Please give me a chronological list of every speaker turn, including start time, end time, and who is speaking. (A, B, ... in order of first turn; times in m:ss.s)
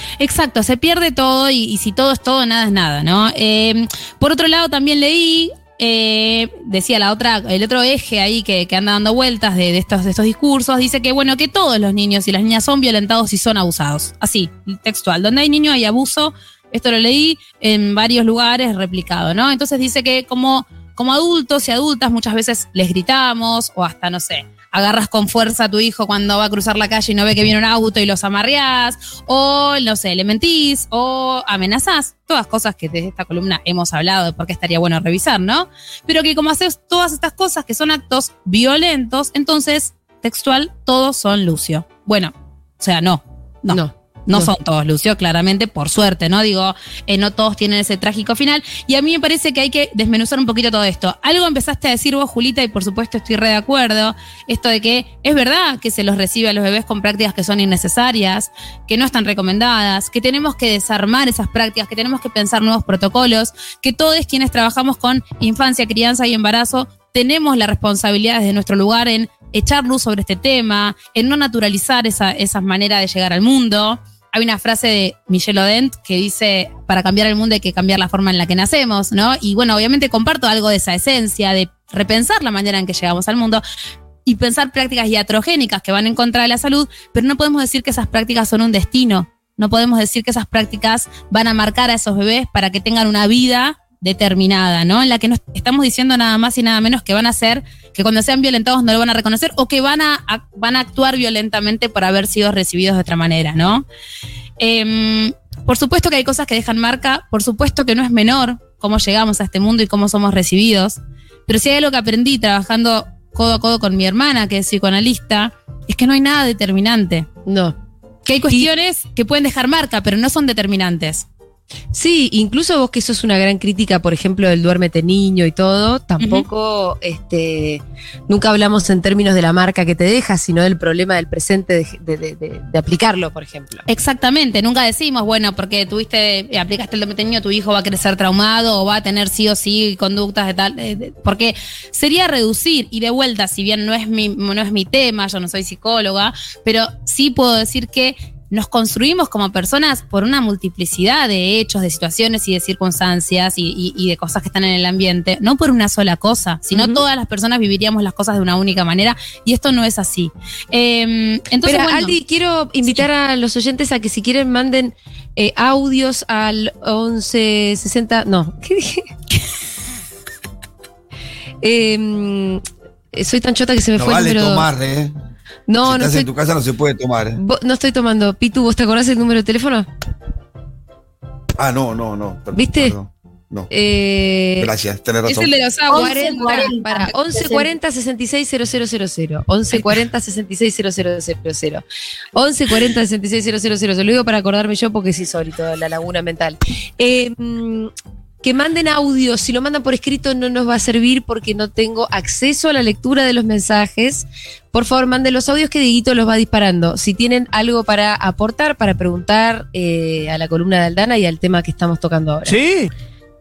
0:00.2-1:23.6 A
0:43.7-0:44.5 B
1:24.2-1:43.8 A
1:44.6-1:57.3 A
1:57.4-1:57.7 B
1:58.2-2:01.3 A
2:01.9-2:13.8 B
2:06.2-2:06.4 A
2:13.9-2:42.1 A
2:36.7-2:37.0 B
2:41.6-2:49.1 B
2:51.6-2:54.7 B
2:54.0-2:55.1 C
2:55.7-2:56.3 B
2:55.8-2:57.4 C
2:57.4-2:59.9 B
3:01.6-3:03.7 C
3:02.5-3:03.0 B
3:03.7-3:04.7 B
3:04.6-3:05.5 C
3:05.2-3:07.6 A
3:05.9-3:11.8 B
3:12.3-3:17.9 B
3:18.4-3:32.6 B
3:32.5-3:32.9 C